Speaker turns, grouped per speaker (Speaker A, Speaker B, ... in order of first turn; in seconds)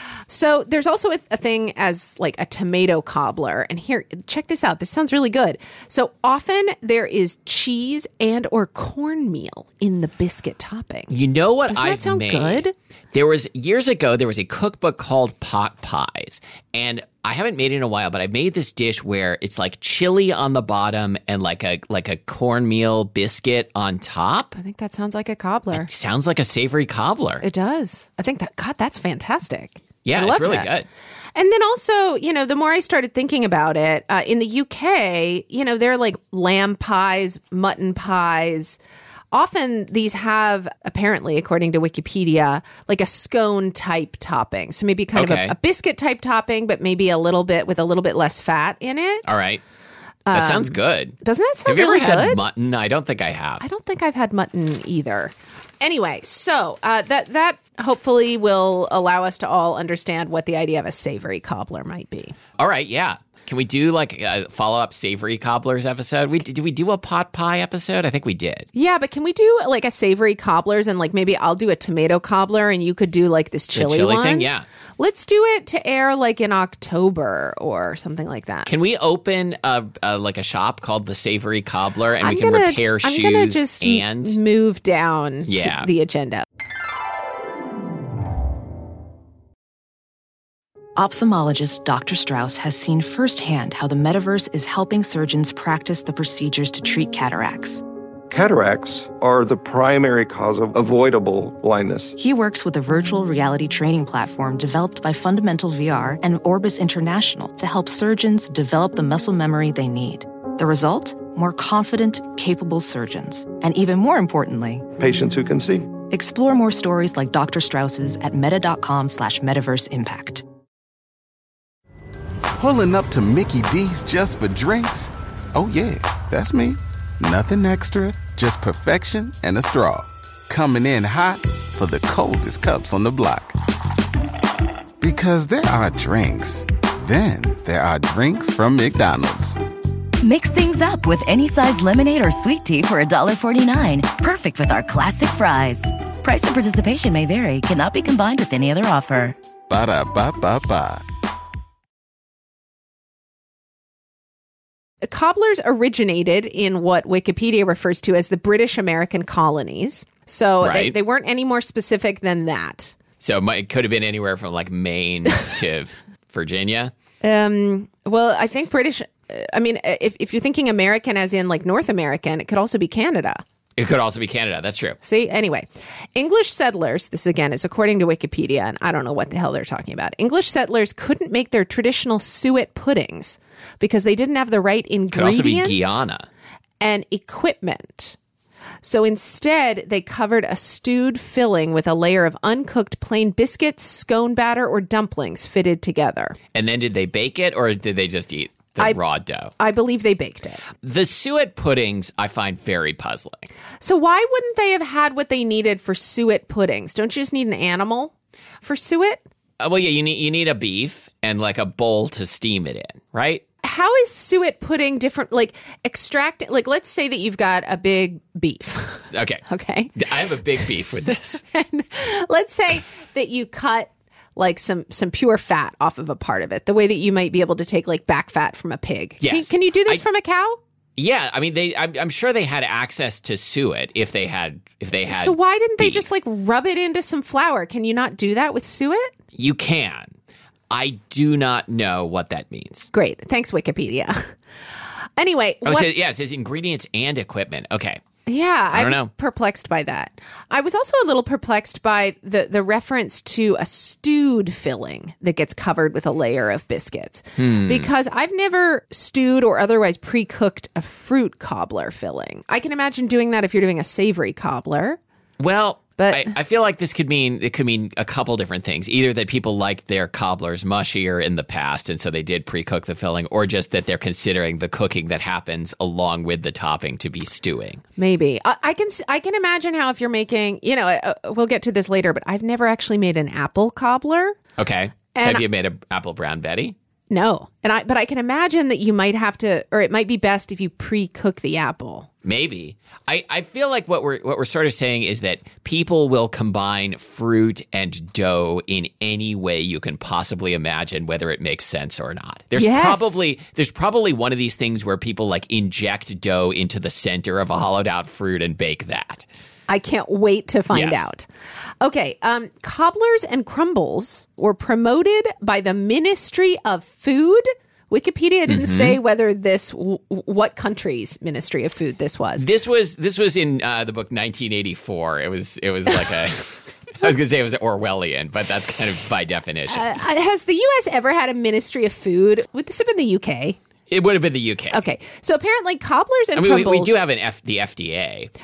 Speaker A: 0.3-11.1, 11.7-12.7, 24.5-25.9, 27.4-30.7, 31.3-38.8, 39.3-49.3, 50.3-52.4, 53.6-62.4, 68.7-74.5, 75.0-78.7, 82.2-86.5, 155.0-162.9, 167.2-173.4, 175.0-186.1, 186.8-188.2, 188.8-196.4, 199.6-200.6, 203.8-209.2, 213.6-220.6, 221.3-230.6, 235.1-239.1, 242.9-244.3, 245.2-245.9, 248.2-265.0, 266.0-266.3, 278.0-284.4, 285.1-285.4, 287.1-292.1, 302.6-303.2, 309.7-311.3, 311.8-322.4, 329.7-333.6, 334.7-337.0
Speaker B: 11.1-24.5, 25.7-27.4, 30.0-30.9, 45.1-45.5, 49.2-49.6, 50.3-53.6, 62.6-68.7, 73.7-74.6, 78.7-84.4, 85.5-85.9, 160.6-160.9, 163.2-166.9, 173.8-175.0, 185.1-186.3, 196.5-199.5, 200.8-203.5, 209.6-213.4, 219.1-219.4, 220.0-221.4, 229.2-230.0, 231.0-236.1, 239.3-240.1, 240.7-242.9, 245.6-248.0, 248.7-249.1, 257.4-257.9, 265.4-277.8, 284.6-286.7, 292.2-309.2, 310.7-311.1, 318.5-319.0, 322.4-329.9, 333.9-334.8, 336.4-338.3
Speaker C: 91.0-97.8, 102.2-114.9, 116.1-120.4
Speaker D: 98.3-102.1, 115.0-115.9
Speaker E: 122.5-133.6, 135.0-139.6, 149.7-151.0
Speaker F: 140.2-149.4